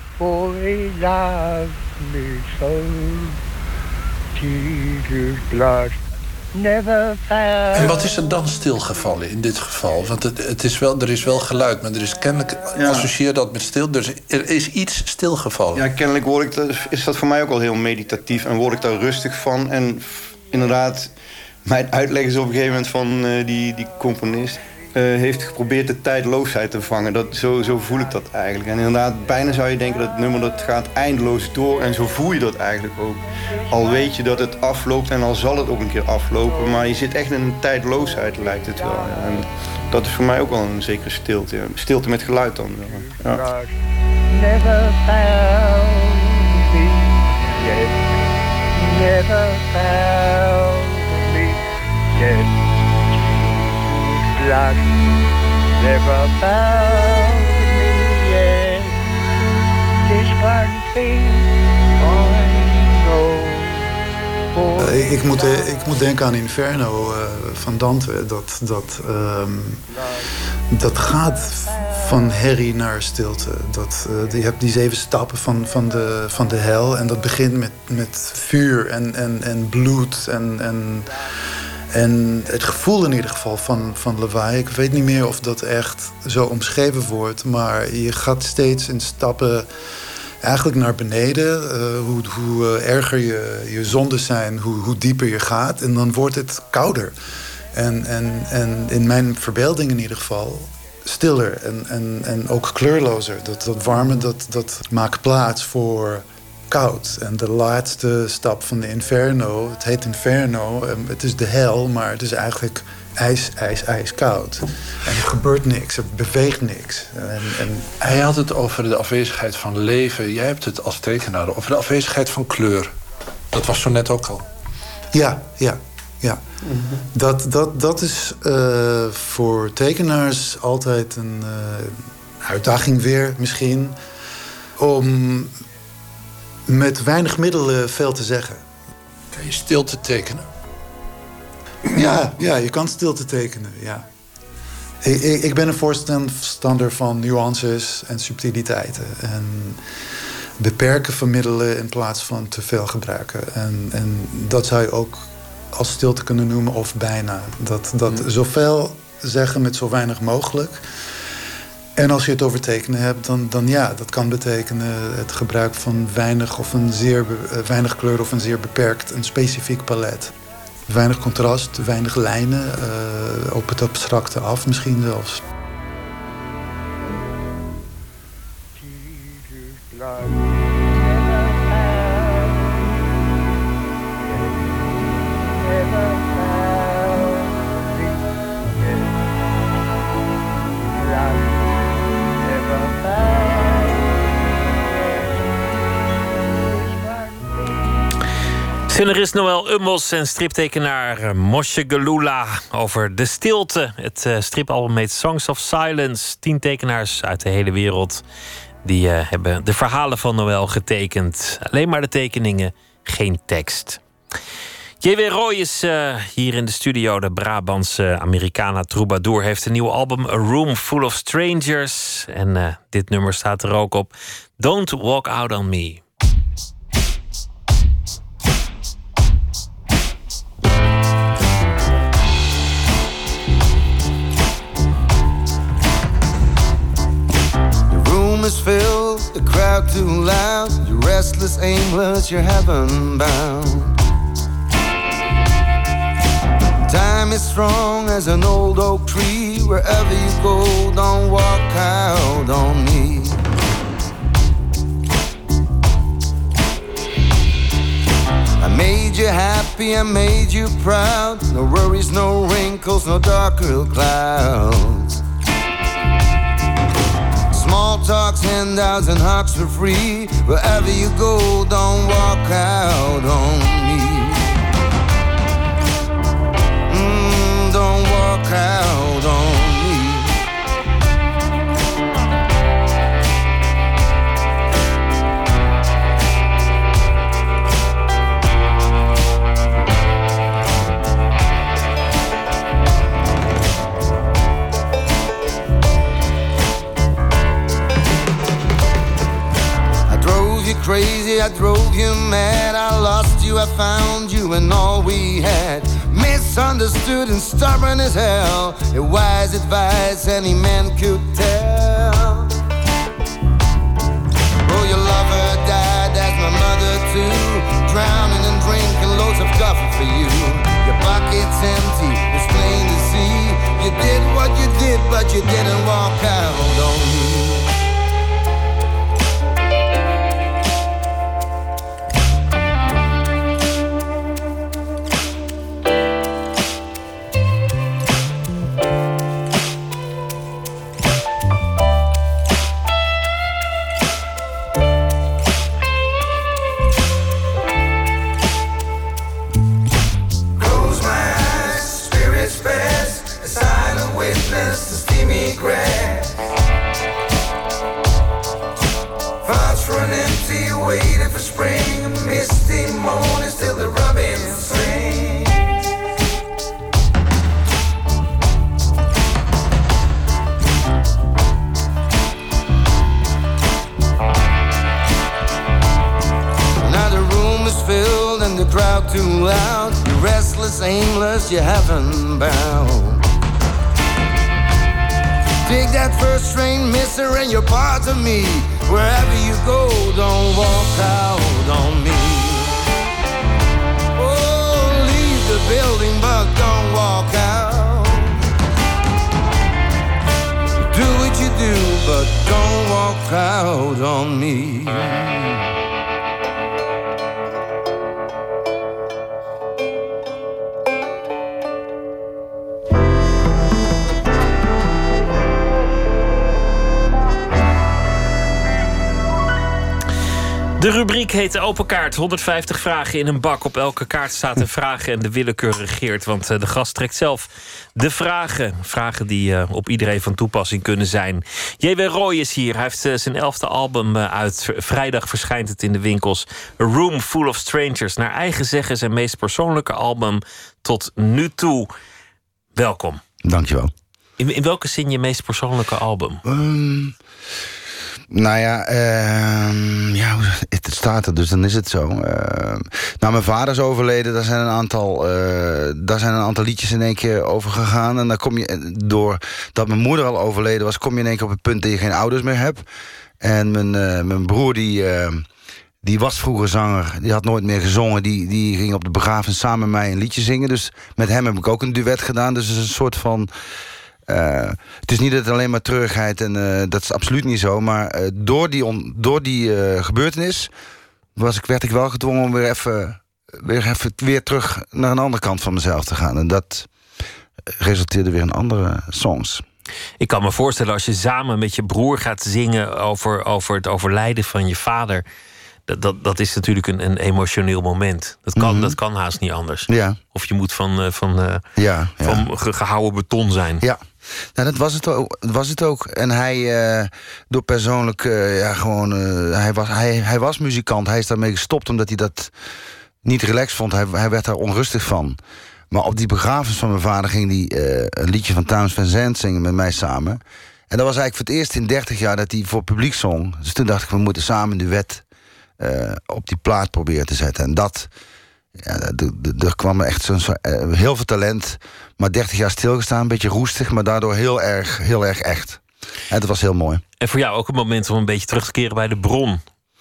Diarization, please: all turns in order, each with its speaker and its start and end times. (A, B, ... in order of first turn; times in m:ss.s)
0:00.2-0:03.4 A
0:04.4-0:06.0 A
0:06.5-0:08.3 A
0:07.7-0:15.8 B
0:12.7-0:13.1 C
0:15.7-0:21.1 C
0:21.6-0:43.4 C
0:33.7-0:34.2 A
0:38.5-0:39.3 A
0:42.9-0:43.7 A
0:44.3-0:48.1 A
0:48.7-0:51.6 A
0:52.1-0:55.2 A
0:55.8-0:59.0 A
1:00.0-1:03.9 A
1:04.5-1:05.6 A
1:04.8-1:09.8 D
1:10.7-1:21.1 D
1:21.9-1:29.7 D
1:30.4-1:37.2 D
1:37.7-1:58.0 D
1:58.0-2:02.9 B
2:03.5-2:04.5 B
2:05.1-2:06.4 D
2:06.6-2:07.0 C
2:07.1-2:14.0 D
2:14.8-2:15.5 D
2:16.7-2:18.6 D
2:19.3-2:20.5 B
2:21.8-2:24.0 D
2:25.0-2:29.8 D
2:30.6-2:40.8 D
2:42.0-2:50.3 D
2:50.9-2:55.4 D
2:58.9-3:03.2 A
3:04.3-3:09.2 A
3:10.9-3:11.7 A
3:12.4-3:14.1 A
3:14.9-3:15.5 A
3:16.6-3:17.4 A
3:18.9-3:28.2 E
3:28.8-3:34.0 E
3:35.0-3:46.0 E
3:57.9-4:03.9 F
4:06.8-4:13.4 F
4:18.6-4:25.2 F
4:27.5-4:34.4 F
4:36.9-4:40.4 F
5:00.1-5:12.4 F
5:14.6-5:27.7 F
5:50.6-5:56.4 F
5:59.4-6:05.7 F
6:16.8-6:23.2 F
6:25.6-6:32.8 F
6:34.2-6:38.4 F
6:40.9-6:45.4 F
7:00.8-7:21.9 E
7:22.7-7:23.2 E
7:23.4-7:23.9 G
7:24.4-7:26.4 E
7:26.4-7:27.1 G
7:28.3-7:42.8 G
7:43.4-7:45.4 G
7:46.0-7:53.5 G
7:54.3-8:00.7 G
8:01.4-8:06.9 G
8:07.8-8:09.6 G
8:10.2-8:15.2 E
8:15.9-8:21.6 E
8:18.6-8:19.0 G
8:19.9-8:20.2 G
8:21.8-8:22.4 G
8:22.2-8:23.8 E
8:24.5-8:32.5 G
8:33.2-8:35.4 G
8:35.9-8:45.2 G
8:45.8-8:48.1 G
8:48.8-8:57.0 G
8:57.2-8:59.6 E